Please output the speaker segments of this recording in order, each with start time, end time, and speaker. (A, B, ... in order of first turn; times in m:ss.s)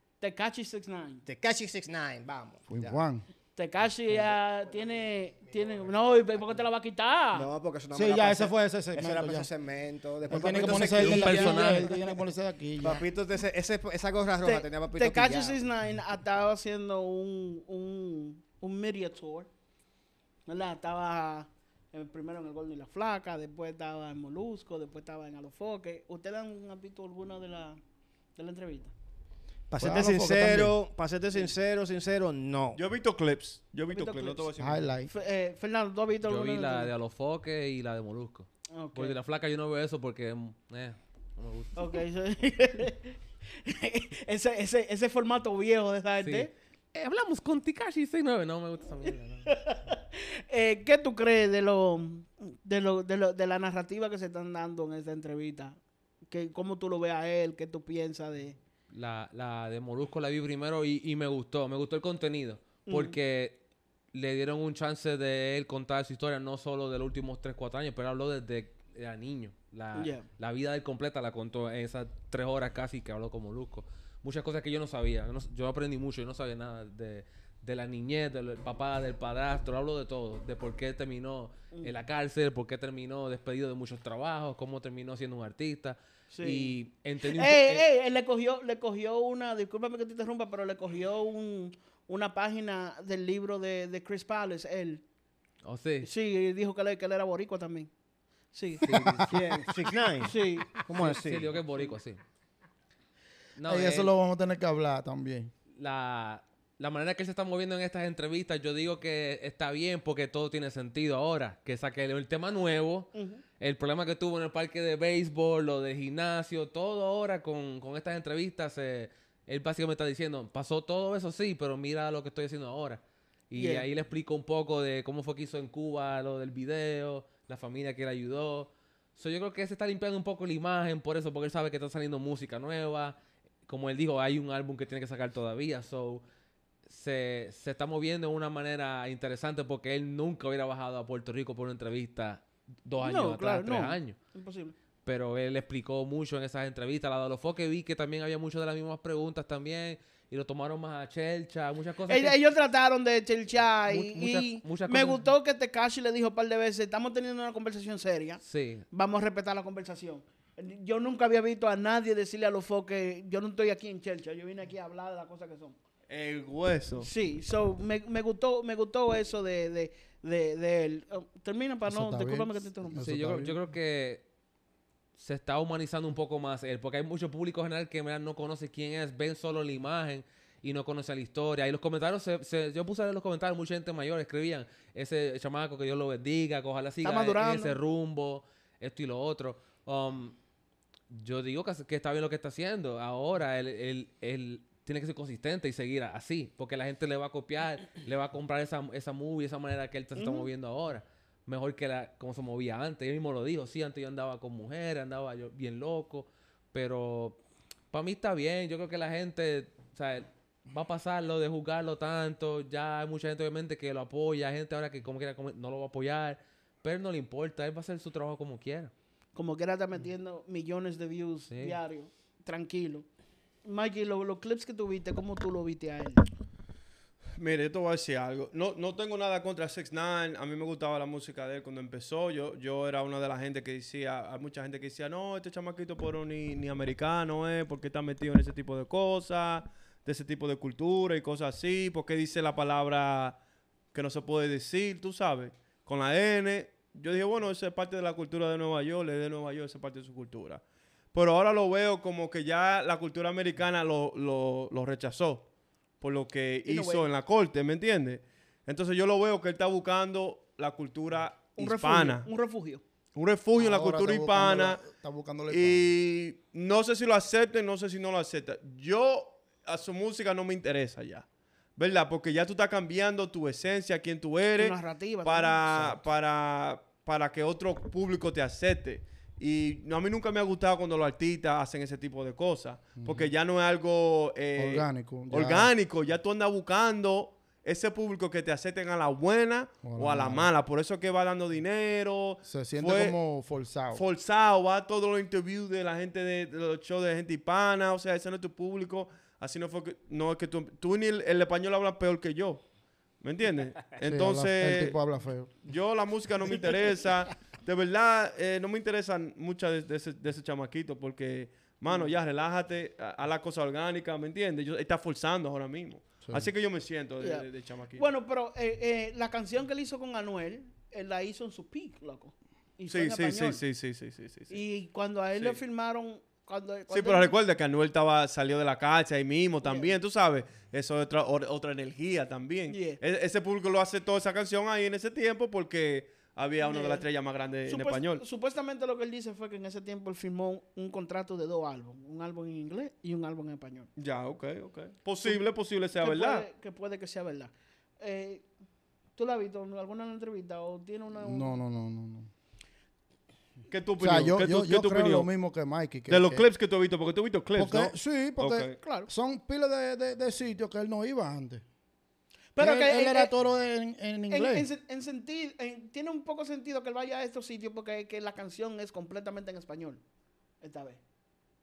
0:00.2-0:01.3 A
0:01.3-0:03.0 B
0:02.7-0:03.2 C
0:03.6-0:07.5 A
0:07.3-0:12.2 B
0:07.9-0:09.5 C
0:10.3-0:13.0 C
0:11.0-0:11.9 D
0:12.8-0:15.6 B
0:14.4-0:19.5 A
0:20.5-0:27.8 A
0:28.4-0:28.9 A
0:29.7-0:32.8 B
0:29.8-0:30.8 C
0:32.8-0:34.9 E
0:33.9-0:34.5 A
0:34.6-0:35.1 C
0:35.1-0:36.9 A
0:36.3-0:41.9 D
0:38.7-0:39.2 A
0:41.8-0:46.5 A
0:46.2-0:49.5 D
0:49.5-0:55.8 A
0:56.3-0:58.6 A
0:58.9-1:03.6 D
1:02.9-1:03.2 A
1:04.1-1:27.8 D
1:09.9-1:10.3 A
1:26.3-1:35.0 A
1:35.6-1:36.1 D
1:36.0-1:37.9 A
1:38.5-1:39.0 A
1:38.8-1:39.7 C
1:38.9-1:39.2 D
1:39.2-1:41.6 B
1:40.2-1:40.8 A
1:40.9-1:42.2 D
1:43.6-1:44.1 D
1:43.7-1:45.5 C
1:45.8-2:16.2 D
1:53.1-1:53.4 A
2:03.6-2:03.9 A
2:16.9-2:24.2 D
2:23.0-2:24.8 A
2:25.0-2:32.4 D
2:32.1-2:38.4 A
2:33.9-2:35.3 D
2:38.4-2:38.8 D
2:38.9-2:45.8 A
2:46.1-2:47.1 E
2:47.0-2:53.0 A
2:51.9-2:53.6 C
2:53.0-2:54.2 D
2:55.2-3:10.4 D
3:07.0-3:07.8 A
3:11.1-3:27.4 D
3:20.2-3:20.5 A
3:27.9-3:38.9 D
3:39.4-3:43.1 A
3:41.5-3:41.8 D
3:43.6-3:46.2 A
3:47.4-4:03.4 E
4:03.9-4:10.6 E
4:11.1-4:15.5 E
4:16.0-4:22.3 E
4:16.6-4:17.1 A
4:21.6-4:22.8 A
4:23.2-4:24.8 E
4:23.6-4:25.9 C
4:25.5-4:53.2 E
4:34.6-4:35.6 A
4:35.7-4:36.0 C
4:43.0-4:43.3 C
4:44.6-4:45.7 C
4:49.8-4:50.5 C
4:52.4-4:54.0 C
4:53.9-5:02.6 E
5:03.2-5:05.0 E
5:04.0-5:05.5 C
5:05.6-5:18.1 E
5:16.2-5:16.5 C
5:17.2-5:23.6 A
5:22.9-5:24.6 E
5:24.5-5:27.4 A
5:26.9-5:38.2 E
5:29.6-5:30.0 A
5:32.7-5:33.0 A
5:36.6-5:37.1 A
5:37.7-5:43.9 A
5:44.0-5:46.5 E
5:45.2-5:48.4 A
5:49.2-5:51.6 A
5:51.2-5:52.3 C
5:53.7-5:55.3 E
5:54.0-5:56.4 C
5:56.1-5:58.8 E
5:57.6-6:01.6 C
5:58.8-5:59.1 A
6:02.6-6:03.3 A
6:02.6-6:04.7 C
6:04.3-6:10.0 A
6:10.6-6:11.0 A